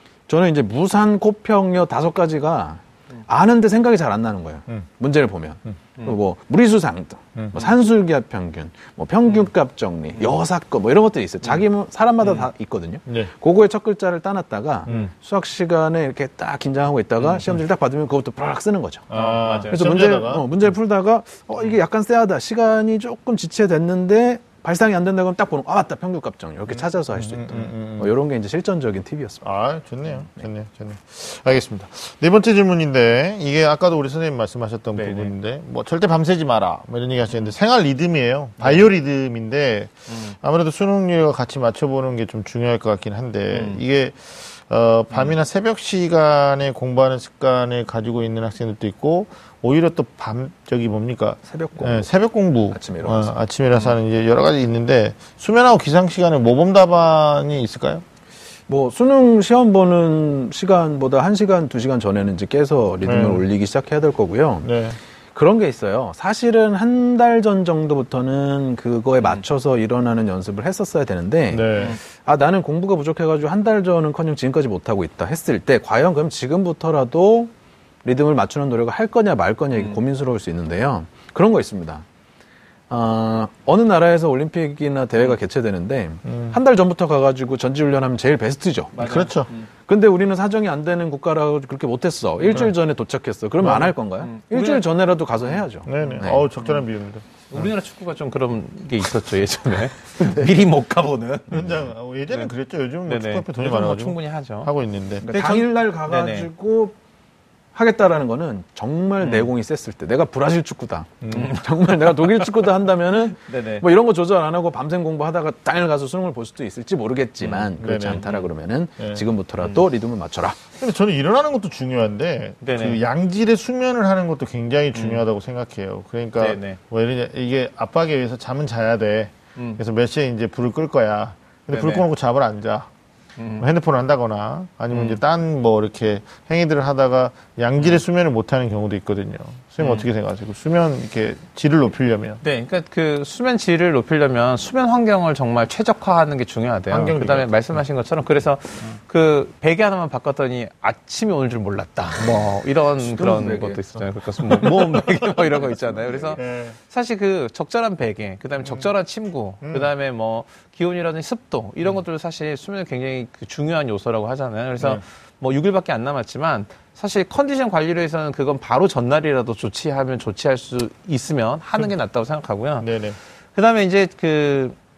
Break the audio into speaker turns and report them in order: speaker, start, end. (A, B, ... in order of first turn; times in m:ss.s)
0:00.3-0:19.1 A
0:07.4-0:07.6 B
0:13.0-0:13.3 B
0:19.1-0:20.4 B
0:19.1-0:19.9 C
0:19.7-0:29.4 A
0:27.1-0:28.1 B
0:29.4-0:58.0 B
0:35.0-0:35.3 C
0:40.1-0:40.4 C
0:43.5-0:43.8 C
0:51.5-0:52.1 A
0:52.7-0:53.3 A
0:58.7-1:04.8 A
1:03.0-1:03.4 B
1:04.6-1:05.0 B
1:05.3-1:17.5 A
1:11.5-1:12.0 B
1:18.0-1:22.0 A
1:22.9-1:29.1 A
1:26.2-1:26.6 B
1:29.0-1:29.7 C
1:29.0-1:29.5 B
1:29.8-1:36.5 A
1:33.6-1:33.9 B
1:34.2-1:34.8 C
1:35.8-1:37.6 B
1:36.0-1:36.8 C
1:37.5-1:41.7 C
1:41.5-1:45.6 B
1:43.1-1:44.7 C
1:45.2-1:46.9 A
1:45.3-1:46.5 C
1:47.7-2:00.6 A
1:49.2-1:49.5 C
1:51.2-1:51.5 B
1:51.3-1:52.5 C
1:53.4-1:53.8 C
1:57.4-1:58.5 C
1:57.8-1:58.2 B
2:00.8-2:12.9 B
2:02.6-2:03.0 C
2:04.9-2:05.2 C
2:06.4-2:06.8 C
2:11.7-2:12.0 C
2:13.4-2:13.6 C
2:13.6-2:22.4 B
2:14.9-2:15.2 C
2:19.8-2:20.0 C
2:22.4-2:52.9 C
2:26.9-2:27.5 B
2:33.0-2:33.8 A
2:36.3-2:36.8 B
2:38.6-2:38.9 B
2:39.6-2:39.9 B
2:52.8-2:53.2 B
2:53.5-2:54.8 C